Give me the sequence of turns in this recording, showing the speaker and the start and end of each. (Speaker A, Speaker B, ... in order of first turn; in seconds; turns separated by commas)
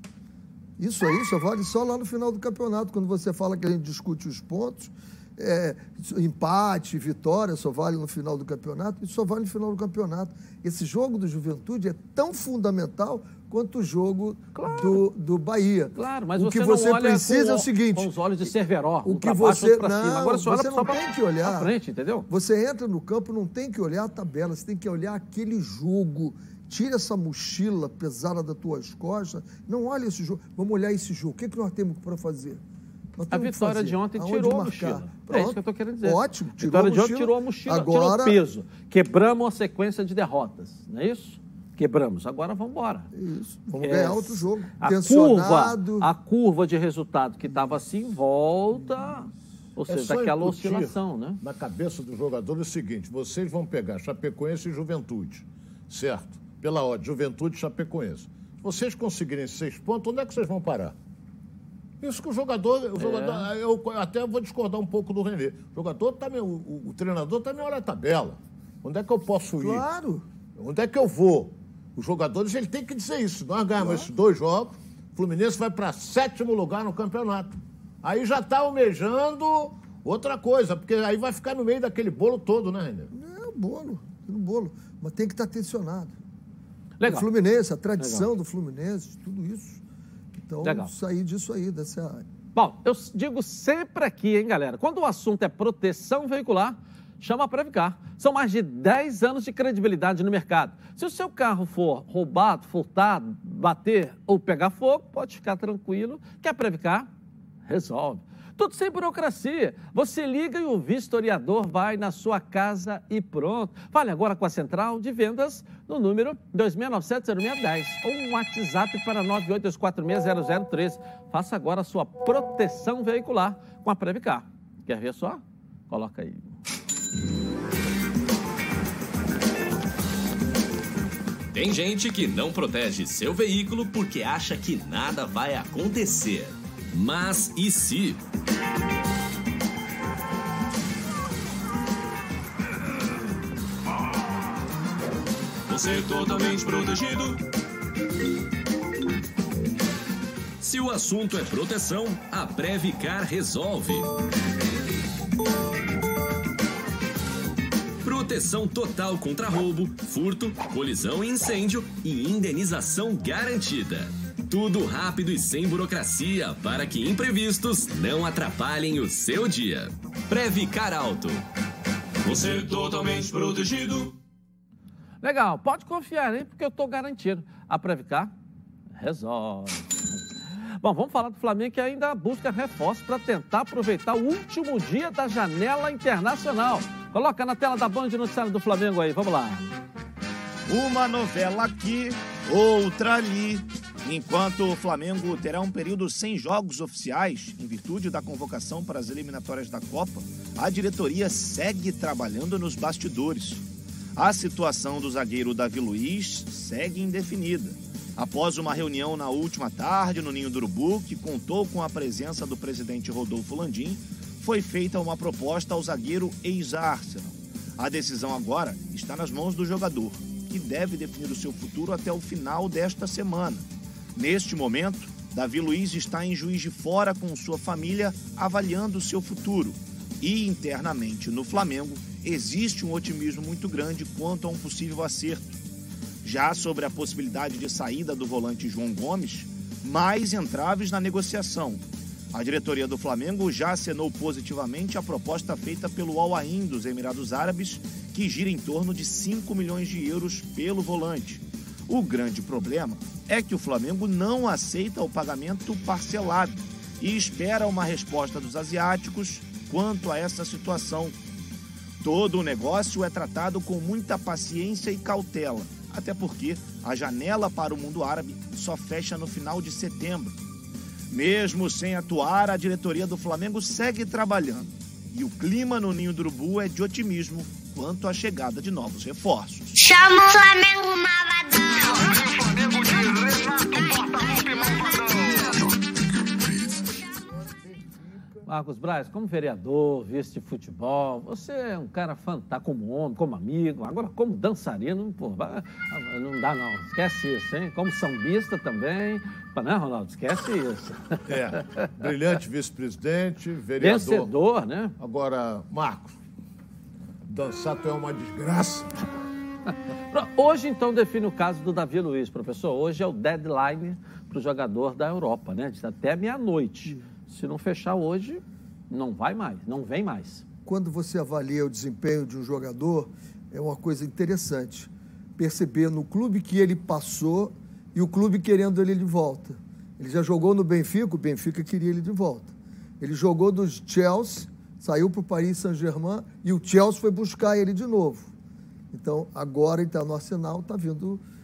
Speaker A: 0.8-18.5, Speaker B: 14.6-15.1, Speaker B: 15.9-22.3, Speaker A: 19.0-21.7, Speaker A: 22.3-32.6, Speaker A: 33.2-38.4, Speaker B: 33.3-43.1, Speaker A: 43.1-46.1, Speaker B: 43.8-51.4, Speaker C: 49.9-61.0, Speaker C: 62.0-69.9, Speaker B: 63.0-63.5, Speaker A: 69.6-70.3, Speaker C: 70.5-83.1, Speaker A: 73.8-74.1, Speaker A: 83.1-86.2, Speaker B: 87.0-87.3, Speaker A: 87.0-89.8, Speaker B: 88.0-88.3, Speaker A: 90.4-92.2, Speaker B: 90.6-90.9, Speaker B: 92.5-107.1, Speaker B: 107.7-126.5, Speaker D: 131.5-138.2, Speaker D: 145.7-147.4, Speaker D: 150.6-154.1, Speaker D: 158.0-171.4, Speaker D: 172.2-174.1, Speaker B: 175.2-178.3, Speaker B: 179.0-179.9, Speaker B: 180.8-189.7, Speaker E: 190.7-203.6, Speaker E: 204.2-223.7, Speaker E: 224.2-235.6, Speaker E: 236.2-261.1, Speaker E: 262.0-270.4, Speaker E: 271.1-279.8, Speaker F: 279.8-285.7, Speaker A: 287.4-288.0, Speaker B: 288.5-301.9, Speaker C: 301.3-304.3, Speaker B: 303.8-304.9, Speaker C: 305.0-306.2, Speaker C: 307.3-308.9, Speaker B: 310.1-320.4, Speaker A: 320.6-338.3, Speaker A: 338.9-341.2